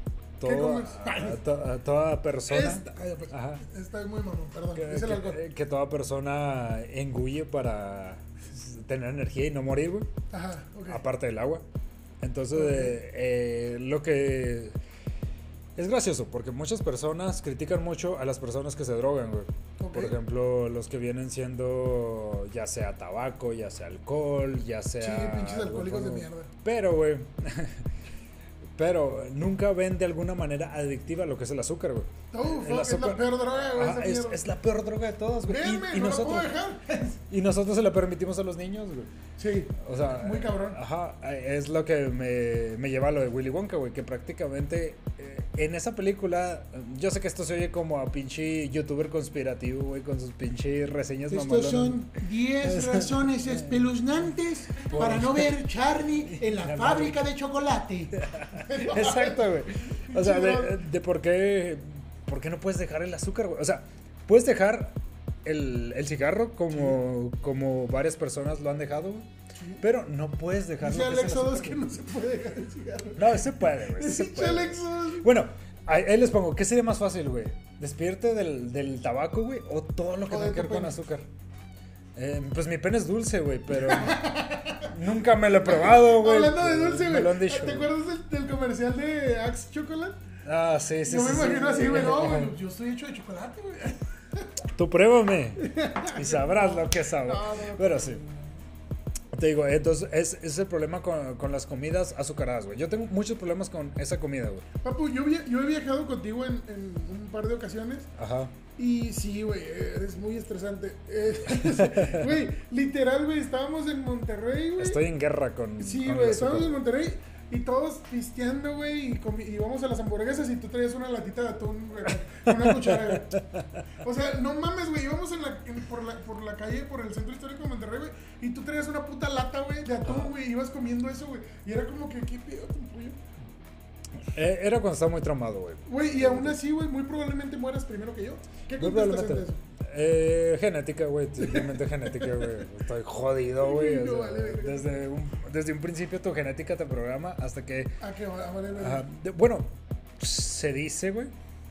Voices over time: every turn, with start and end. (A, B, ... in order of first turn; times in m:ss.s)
0:00.4-0:03.6 A
0:00.4-0:01.4 B
0:02.5-0:05.4 B
0:04.7-0:10.1 A
0:10.3-0:11.0 B
0:10.9-0:11.6 A
0:12.2-0:14.8 A
0:12.5-0:13.0 B
0:15.8-0:27.8 A
0:19.8-0:20.2 B
0:25.0-0:26.5 B
0:28.8-0:36.5 A
0:32.3-0:34.4 B
0:35.4-0:37.2 B
0:37.3-0:39.1 A
0:39.4-0:40.8 B
0:39.8-0:52.1 A
0:51.3-1:00.8 B
0:52.6-0:53.7 A
0:54.8-0:55.6 A
0:56.3-0:57.2 A
0:58.2-1:09.3 A
1:06.7-1:07.0 B
1:09.6-1:09.8 B
1:09.8-1:11.8 A
1:10.8-1:15.3 B
1:13.2-1:21.2 A
1:20.3-1:21.0 B
1:22.1-1:24.2 A
1:23.7-1:24.9 B
1:24.8-1:27.9 A
1:25.6-1:30.2 B
1:30.4-1:32.5 A
1:31.0-1:34.6 B
1:34.7-1:38.2 A
1:35.6-1:38.4 B
1:39.3-1:44.6 A
1:44.8-1:48.1 B
1:48.2-1:48.5 A
1:48.8-1:55.0 B
1:51.5-1:52.3 A
1:54.8-1:56.8 A
1:55.8-2:03.4 B
2:02.5-2:03.8 A
2:04.0-2:13.2 B
2:10.0-2:10.3 A
2:14.3-2:16.6 A
2:15.8-2:19.6 B
2:18.8-2:28.0 A
2:21.4-2:22.4 B
2:23.6-2:24.9 B
2:28.0-2:29.1 B
2:28.7-2:31.3 A